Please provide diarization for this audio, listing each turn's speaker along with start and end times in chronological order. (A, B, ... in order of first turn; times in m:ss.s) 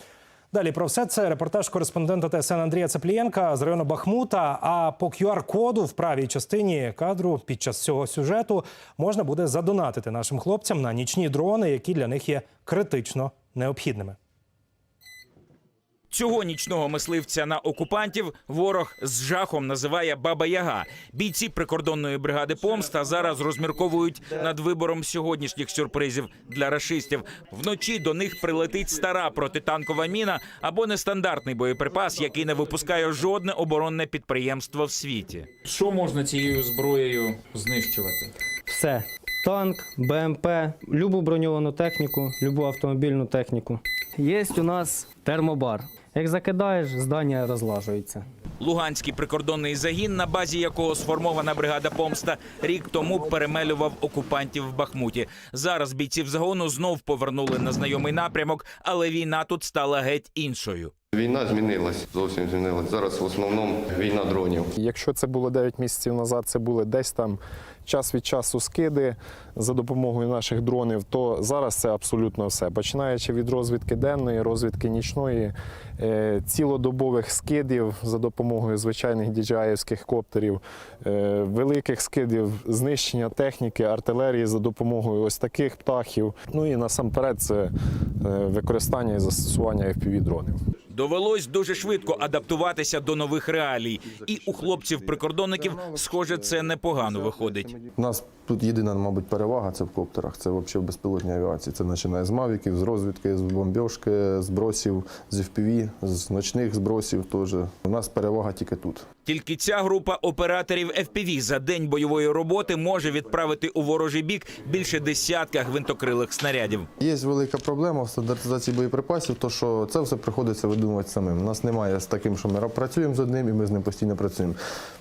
0:00.5-0:14.2 A
0:16.1-0:35.5 B
0:35.8-0:38.2 C
0:38.7-0:48.2 D
0:48.6-1:00.9 B
1:01.1-1:04.7 E
1:04.8-1:30.5 F
1:30.9-1:37.7 B
1:37.9-1:49.0 G
1:49.2-1:56.9 B
1:57.0-2:04.6 G